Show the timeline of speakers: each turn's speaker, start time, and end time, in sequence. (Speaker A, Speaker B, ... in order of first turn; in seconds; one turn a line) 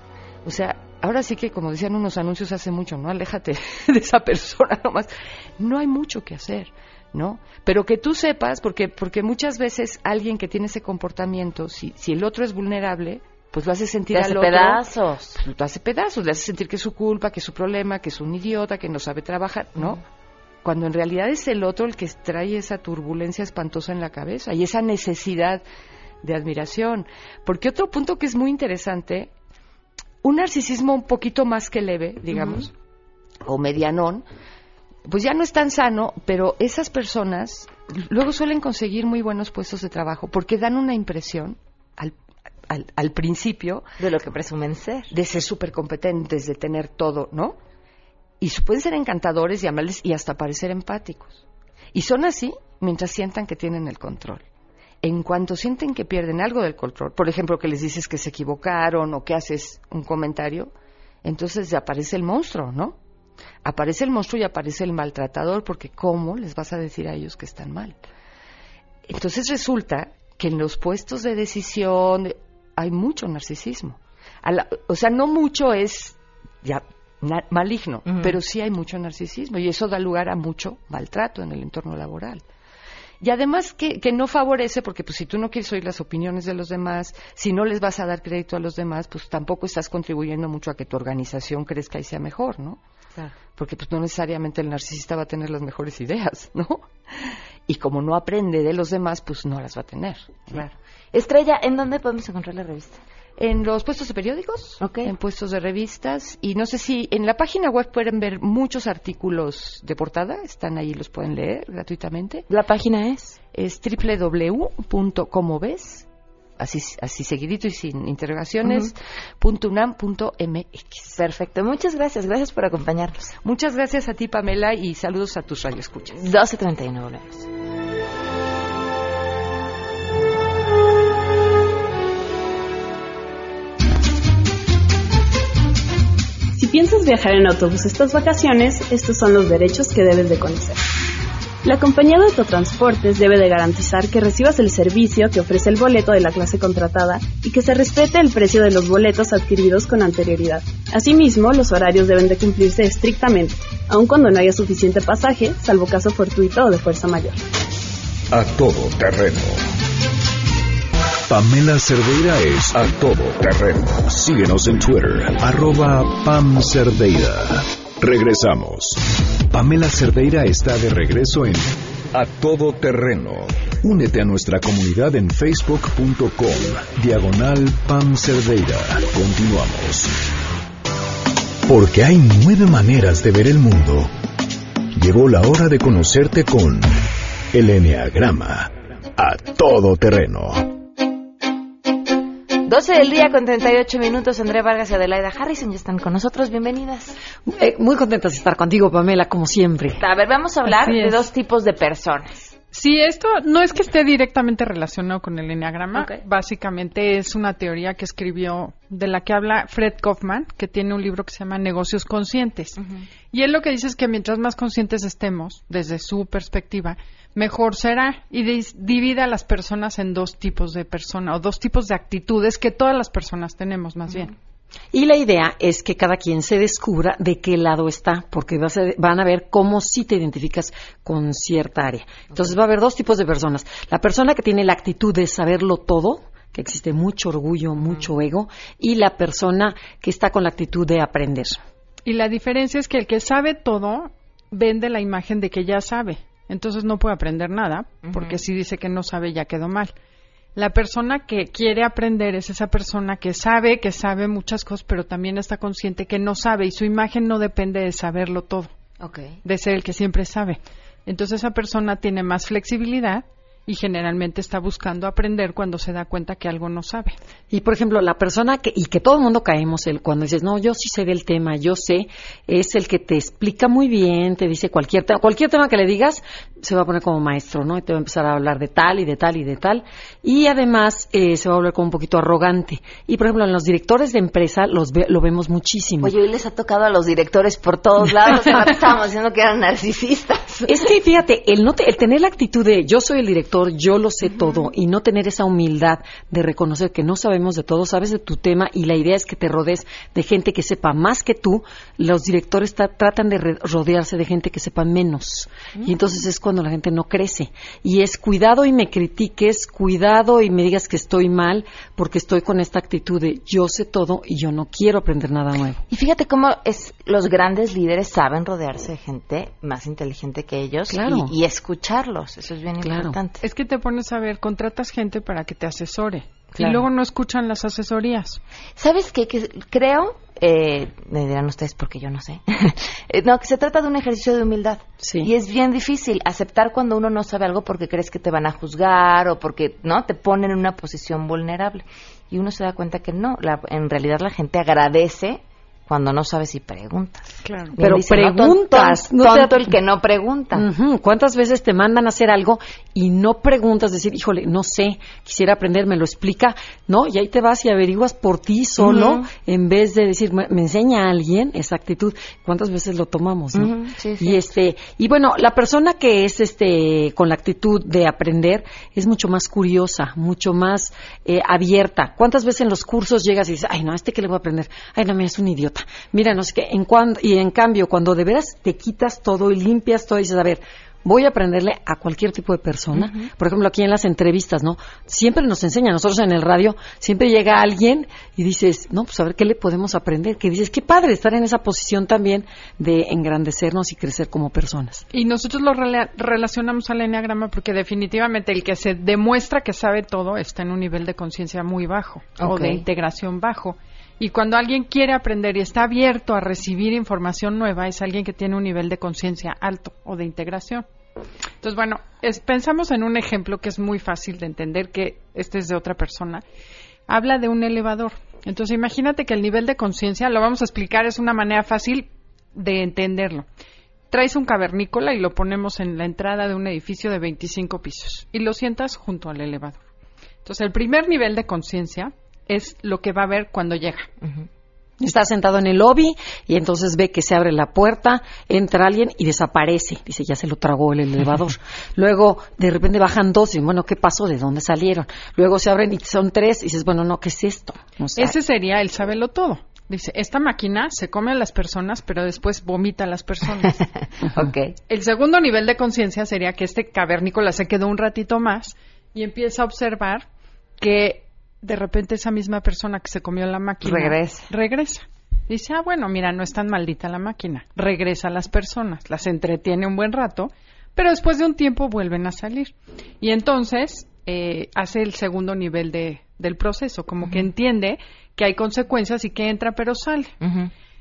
Speaker A: 0.4-14.8
Speaker B: 14.1-15.4
Speaker A: 15.3-20.0
Speaker A: 20.6-25.6
Speaker A: 26.2-29.3
Speaker A: 30.2-32.7
Speaker B: 32.3-32.6
Speaker A: 33.4-34.2
Speaker A: 35.0-42.1
Speaker A: 42.7-43.9
Speaker B: 44.0-45.1
Speaker A: 45.1-47.6
Speaker A: 48.4-54.5
Speaker A: 55.0-60.7
Speaker A: 61.2-63.0
Speaker A: 63.6-68.0
Speaker A: 69.1-82.4
Speaker B: 78.1-78.3
Speaker A: 83.2-92.8
Speaker A: 93.5-100.6
Speaker B: 100.5-103.0
Speaker A: 103.4-112.5
Speaker B: 104.8-105.1
Speaker B: 112.5-113.4
Speaker A: 113.5-116.1
Speaker A: 116.6-121.2
Speaker B: 118.7-118.9
Speaker B: 121.2-123.3
Speaker A: 123.4-126.2
Speaker B: 126.1-127.5
Speaker C: 136.5-140.8
Speaker C: 141.6-157.4
Speaker D: 158.3-159.6
Speaker D: 161.3-180.1
Speaker D: 181.7-184.1
Speaker D: 184.9-186.9
Speaker D: 187.5-190.7
Speaker B: 192.6-197.2
Speaker E: 197.5-200.0
Speaker B: 200.0-202.5
Speaker F: 200.7-201.2
Speaker F: 202.7-212.8
Speaker B: 205.9-206.2
Speaker B: 212.8-213.0
Speaker F: 213.3-224.3
Speaker E: 224.9-241.6
Speaker F: 242.0-249.9
Speaker B: 248.1-248.4
Speaker F: 250.5-258.7
Speaker B: 259.0-259.4
Speaker F: 259.4-267.1
Speaker E: 267.5-286.1
Speaker B: 286.0-290.9
Speaker E: 290.7-315.8
Speaker B: 294.2-294.7
Speaker B: 315.9-323.4
Speaker E: 320.9-321.3
Speaker E: 322.8-323.1
Speaker F: 323.4-328.4
Speaker B: 326.5-326.8
Speaker B: 328.8-350.6
Speaker E: 335.0-335.3
Speaker F: 347.4-347.8
Speaker E: 347.8-349.8
Speaker E: 350.5-395.0
Speaker B: 358.8-359.3
Speaker B: 363.5-364.4
Speaker F: 395.1-410.9
Speaker B: 402.4-402.8
Speaker F: 411.6-416.4
Speaker F: 417.1-423.4
Speaker F: 424.1-429.8
Speaker F: 430.4-434.1
Speaker E: 435.0-448.4
Speaker F: 448.1-453.8
Speaker B: 453.7-454.7
Speaker F: 454.9-460.2
Speaker F: 460.8-480.3
Speaker B: 463.8-464.5
Speaker B: 477.2-477.5
Speaker B: 480.4-480.7